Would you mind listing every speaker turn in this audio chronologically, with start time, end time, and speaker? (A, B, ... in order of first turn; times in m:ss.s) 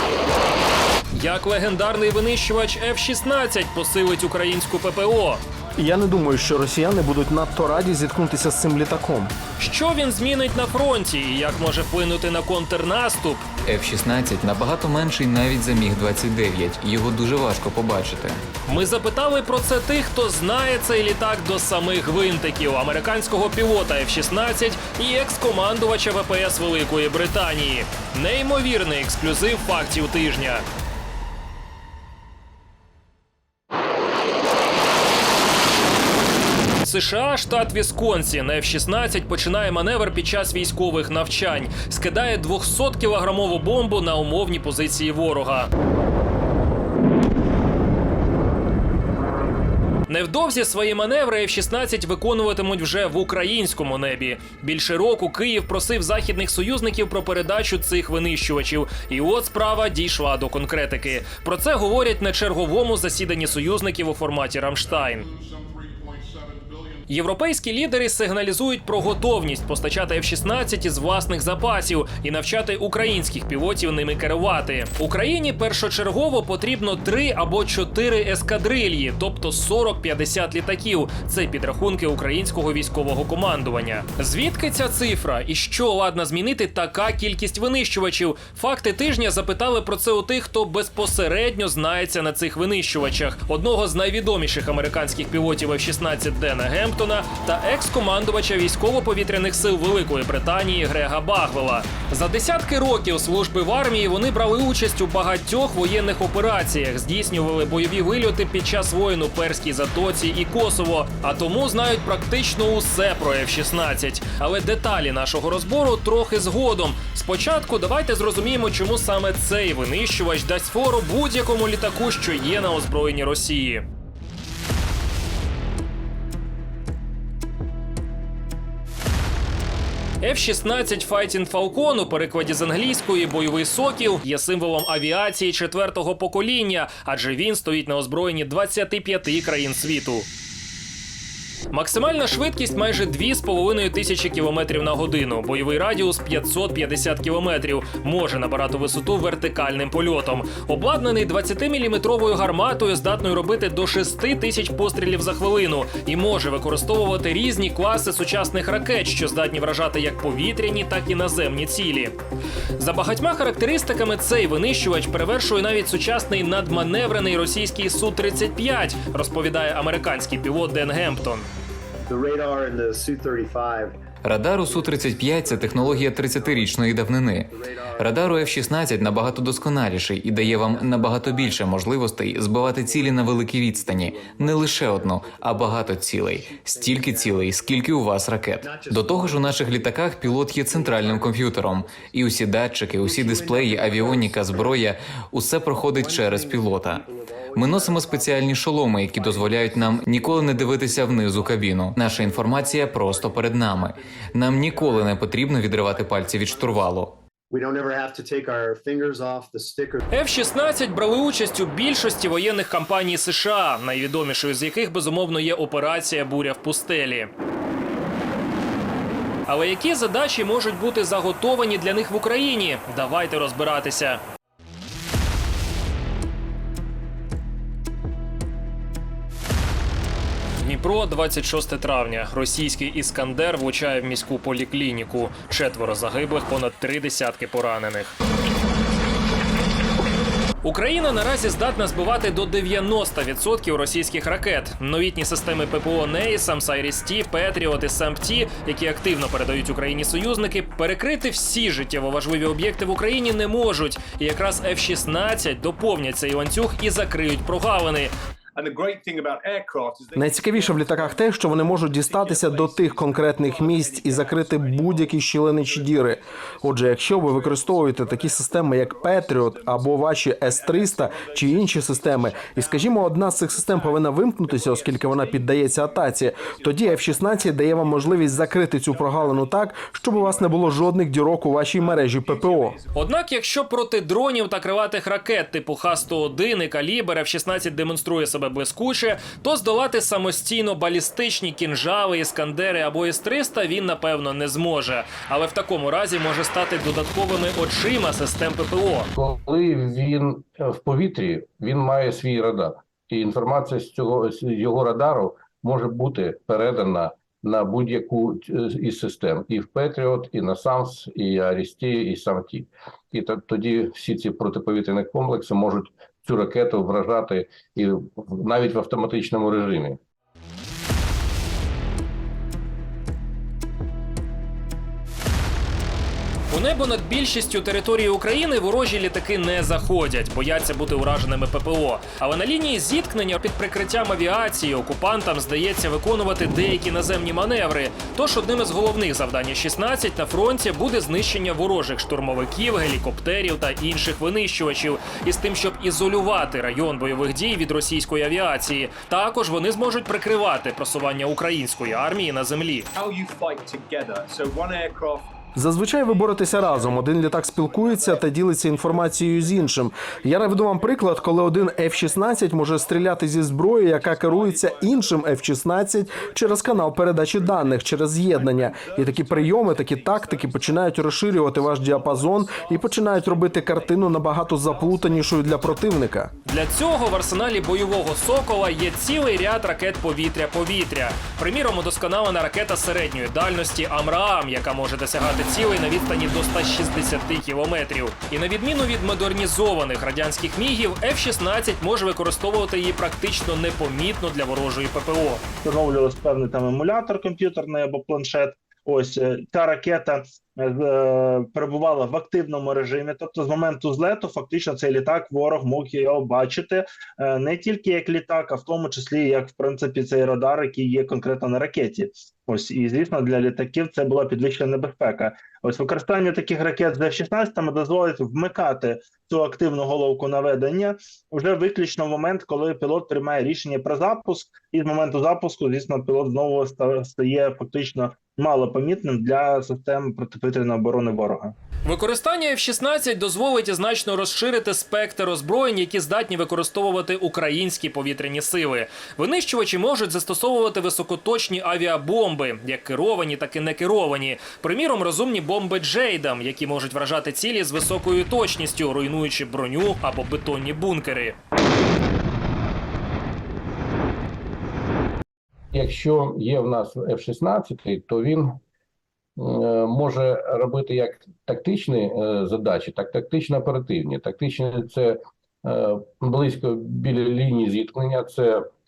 0:01.1-0:05.4 A
0:05.8-0:09.3 B
0:09.6-0:13.5 A
0:13.6-0:18.4 C
0:18.7-0:30.6 A
0:36.8-0:45.7 A
0:50.1-1:05.3 A
1:07.1-2:03.8 A
2:10.2-2:20.3 A
2:21.7-2:42.2 A
2:42.8-2:51.5 A
2:52.1-2:53.9 D
2:54.2-3:27.2 C
2:55.0-2:56.7 D
2:57.5-2:59.6 D
3:00.3-3:01.7 D
3:02.5-3:07.8 D
3:08.6-3:12.1 D
3:13.0-3:14.8 D
3:15.8-3:25.1 D
3:25.9-3:26.9 D
3:27.5-3:30.0 D
3:30.1-3:37.3 A
3:39.5-3:44.2 A
3:50.6-3:58.2 A
4:00.6-4:18.1 A
4:18.6-4:43.0 E
4:20.2-4:42.8 B
4:42.9-4:59.1 A
4:59.2-5:20.0 F
5:26.5-5:52.9 A
5:52.9-5:55.3 E
5:55.6-6:16.3 B
5:56.0-6:16.4 E
6:16.5-6:35.4 A
6:35.6-7:11.6 G
7:11.8-7:31.4 A
7:35.7-7:38.6 F
7:39.4-7:48.7 F